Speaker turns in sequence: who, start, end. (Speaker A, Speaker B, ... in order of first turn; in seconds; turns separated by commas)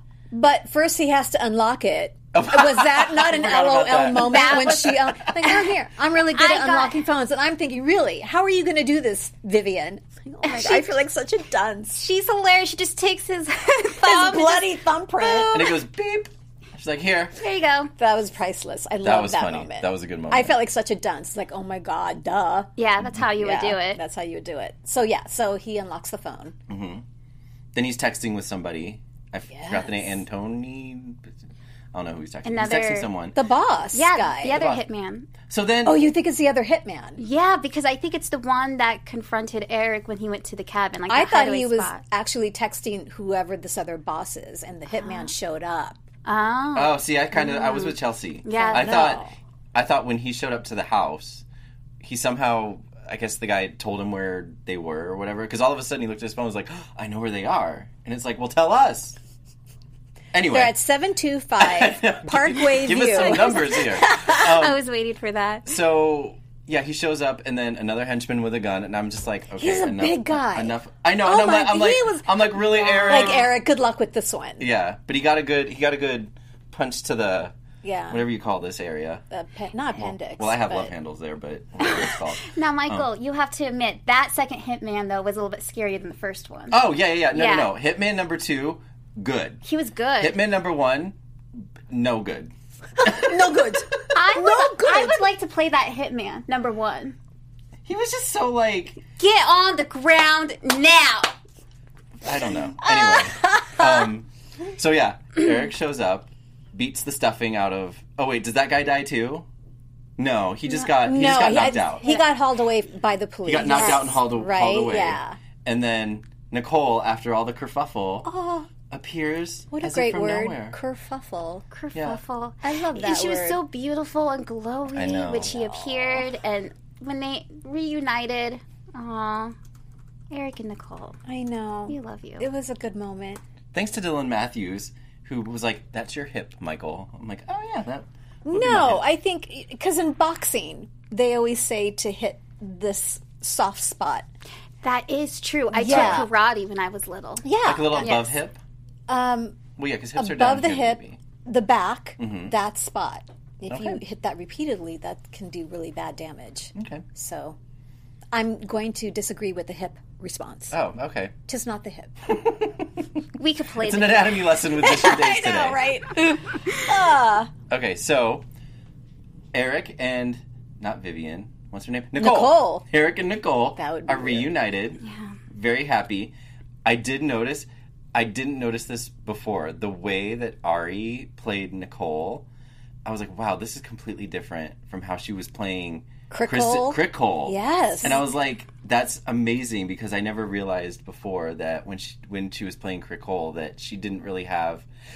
Speaker A: 0.3-12.0, Speaker B: 2.3-5.3, Speaker C: 4.2-5.7, Speaker C: 6.3-7.0, Speaker C: 10.4-10.9, Speaker C: 11.9-15.8, Speaker A: 14.0-15.6, Speaker B: 15.5-17.4, Speaker C: 17.4-17.9, Speaker A: 18.0-22.7, Speaker B: 19.0-20.6, Speaker C: 22.8-24.0, Speaker A: 23.4-26.6, Speaker B: 26.7-27.0, Speaker B: 27.7-31.3, Speaker A: 29.5-30.0, Speaker B: 31.9-33.4, Speaker C: 32.4-33.1, Speaker A: 33.4-34.6, Speaker C: 33.9-35.3, Speaker B: 34.5-34.8, Speaker B: 35.5-36.1, Speaker A: 35.9-37.2, Speaker C: 37.2-42.0, Speaker A: 41.1-46.0, Speaker C: 44.9-45.3, Speaker C: 46.3-49.1, Speaker B: 46.8-49.2, Speaker A: 48.5-49.3, Speaker B: 49.7-51.4, Speaker B: 52.0-59.2, Speaker B: 60.3-60.8, Speaker A: 60.5-64.4, Speaker B: 61.6-64.8, Speaker C: 64.1-65.7, Speaker B: 65.7-73.5, Speaker A: 69.6-74.7, Speaker C: 73.0-73.5, Speaker B: 74.6-77.5, Speaker A: 77.8-78.2, Speaker B: 78.1-79.2, Speaker A: 79.3-80.9, Speaker B: 80.0-83.1, Speaker C: 82.0-87.7, Speaker B: 86.7-89.6, Speaker C: 89.7-90.4, Speaker B: 90.2-93.4, Speaker A: 93.0-95.2, Speaker C: 94.1-97.2, Speaker B: 97.9-99.0, Speaker C: 99.2-101.3, Speaker B: 102.2-109.5, Speaker A: 102.8-104.1, Speaker B: 110.2-112.1, Speaker A: 110.7-115.4, Speaker B: 113.5-118.3, Speaker C: 113.7-114.0, Speaker A: 118.2-118.7, Speaker B: 118.9-120.8, Speaker A: 119.7-121.7, Speaker C: 121.7-129.6, Speaker B: 121.9-122.2, Speaker A: 122.6-123.6, Speaker B: 124.9-126.2, Speaker C: 130.3-131.2, Speaker A: 131.3-133.4, Speaker C: 131.9-132.4, Speaker B: 133.7-139.0, Speaker A: 138.5-144.3, Speaker C: 144.8-147.4, Speaker A: 145.7-146.3, Speaker B: 145.8-146.3, Speaker A: 147.4-148.2, Speaker B: 147.7-148.6, Speaker C: 148.0-148.3, Speaker A: 149.1-149.6, Speaker B: 149.8-151.2, Speaker A: 150.2-157.6, Speaker B: 152.2-152.5, Speaker B: 153.7-154.0, Speaker B: 156.8-157.1, Speaker A: 158.3-160.8, Speaker B: 160.7-161.3, Speaker A: 161.5-162.1, Speaker B: 162.3-163.0, Speaker C: 163.4-164.4, Speaker B: 163.8-165.8, Speaker A: 164.8-167.5, Speaker B: 167.7-168.4, Speaker B: 169.5-176.3, Speaker A: 172.2-172.8, Speaker A: 173.8-174.5, Speaker C: 175.0-175.3, Speaker B: 176.8-182.5, Speaker B: 183.1-194.9, Speaker A: 186.3-188.2